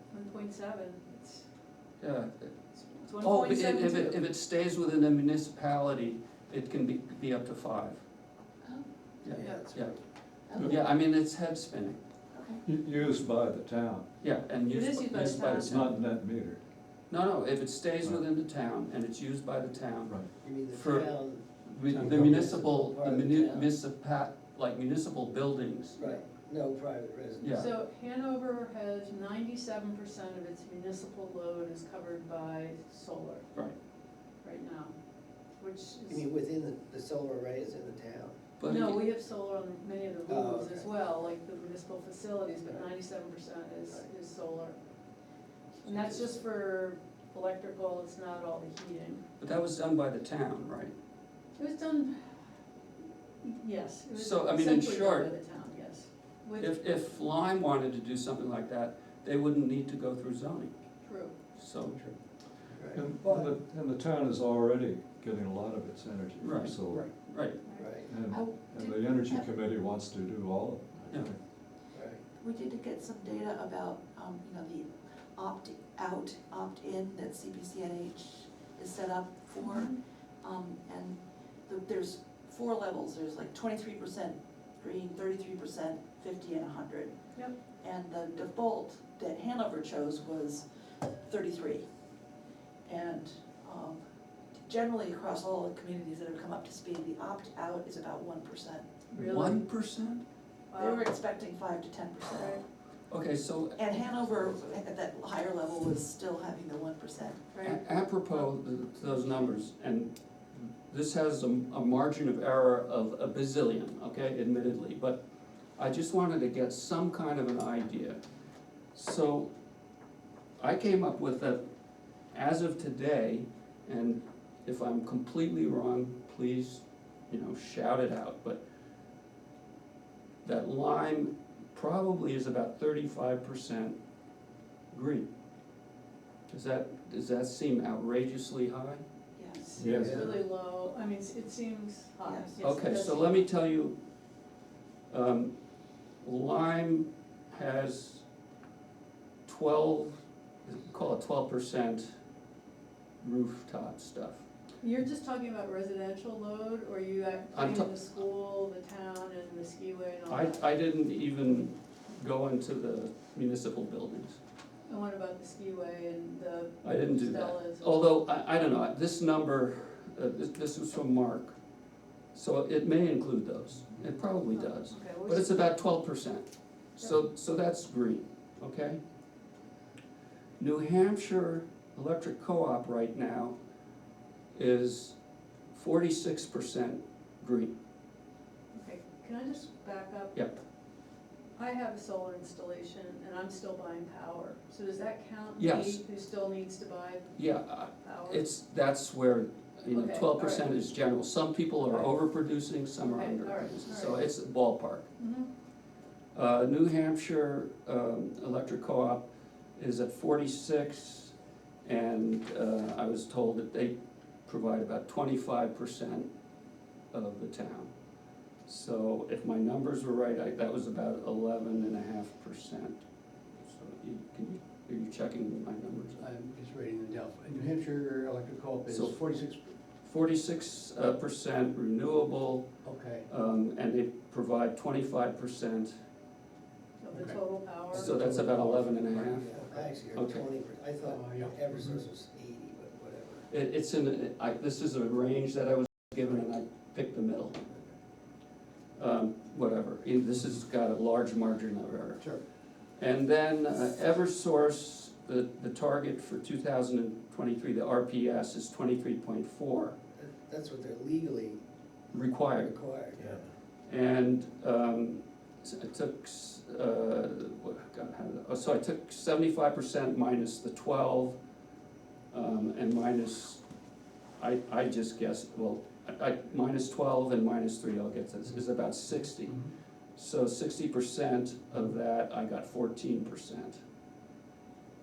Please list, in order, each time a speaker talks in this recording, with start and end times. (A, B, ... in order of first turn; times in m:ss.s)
0:00.1-0:01.5 A
0:02.0-0:02.5 B
0:03.0-0:04.2 A
0:03.2-0:08.0 B
0:08.6-0:09.5 C
0:09.2-0:12.0 B
0:09.3-0:09.9 D
0:09.4-0:09.7 A
0:10.5-0:10.8 C
0:12.3-0:12.6 C
0:12.6-0:14.1 E
0:14.2-0:16.0 B
0:14.7-0:16.0 A
0:15.1-0:16.6 E
0:17.1-0:26.0 B
0:20.4-0:21.5 D
0:21.9-0:22.7 E
0:22.0-0:23.7 D
0:26.0-0:26.2 A
0:26.0-0:27.6 D
0:27.4-0:27.7 B
0:27.5-0:33.6 A
0:34.4-0:34.9 A
0:35.6-0:36.2 A
0:36.1-0:38.4 D
0:38.6-0:39.1 B
0:38.6-0:44.8 A
0:40.3-0:40.9 D
0:42.7-0:42.9 D
0:45.8-0:49.2 A
0:49.4-0:50.9 B
0:51.6-0:52.5 A
0:53.4-0:57.0 A
0:54.1-0:55.3 B
0:56.6-1:02.0 B
1:01.0-1:01.4 A
1:02.7-1:03.4 D
1:02.9-1:07.1 E
1:06.4-1:08.0 B
1:07.6-1:07.9 A
1:07.8-1:08.1 D
1:08.0-1:11.4 E
1:08.2-1:09.4 C
1:11.9-1:12.2 D
1:12.4-1:31.8 C
1:19.6-1:19.9 A
1:32.8-1:38.9 C
1:39.1-1:39.7 A
1:39.2-1:40.2 B
1:39.2-1:39.4 E
1:40.7-1:41.1 A
1:40.7-1:42.6 C
1:42.3-1:42.6 A
1:43.1-1:44.5 B
1:43.8-1:47.4 C
1:47.5-1:49.5 A
1:47.6-1:55.2 B
1:55.8-1:58.2 B
1:58.9-1:59.5 B
2:00.6-2:01.6 B
2:02.3-2:08.6 B
2:10.4-2:14.0 B
2:14.9-2:15.3 B
2:16.5-2:19.0 B
2:19.4-2:19.7 C
2:19.6-2:23.5 A
2:19.8-2:20.2 E
2:19.8-2:20.1 B
2:20.0-2:20.3 F
2:22.2-2:22.6 C
2:22.6-2:24.0 B
2:25.1-2:25.5 B
2:26.2-2:28.2 B
2:29.4-2:32.1 B
2:33.2-2:34.4 B
2:34.8-2:40.7 A
2:37.5-2:37.9 B
2:40.3-2:44.4 B
2:44.9-2:48.1 A
2:46.8-2:51.6 B
2:52.3-2:56.4 B
2:54.5-2:55.9 A
2:57.0-2:59.0 B
3:00.6-3:03.5 B
3:04.5-3:05.2 B
3:05.7-3:07.7 B
3:08.8-3:10.4 A
3:10.3-3:10.6 B
3:11.6-3:17.4 A
3:15.6-3:16.0 B
3:17.4-3:25.1 B
3:18.0-3:18.4 A
3:19.9-3:20.7 A
3:23.1-3:24.2 A
3:25.2-3:25.5 A
3:26.3-3:29.2 B
3:29.8-3:31.3 B
3:31.8-3:33.9 B
3:34.4-3:36.3 B
3:37.1-3:37.9 B
3:38.7-3:43.0 B
3:43.5-3:46.2 B
3:46.2-3:49.6 F
3:48.9-3:49.3 B
3:50.0-3:52.7 B
3:52.8-3:53.2 F
3:53.3-3:55.9 B
3:57.0-3:58.2 A
3:57.9-3:59.6 B
3:57.9-3:58.7 F
3:58.3-4:03.5 D
3:59.6-3:59.9 F
4:00.1-4:00.4 B
4:01.0-4:02.0 F
4:03.5-4:07.6 B
4:09.0-4:12.3 B
4:13.0-4:20.0 B
4:20.2-4:21.6 D
4:22.1-4:22.8 B
4:22.4-4:23.4 D
4:23.9-4:31.4 B
4:32.3-4:33.6 B
4:34.4-4:43.8 B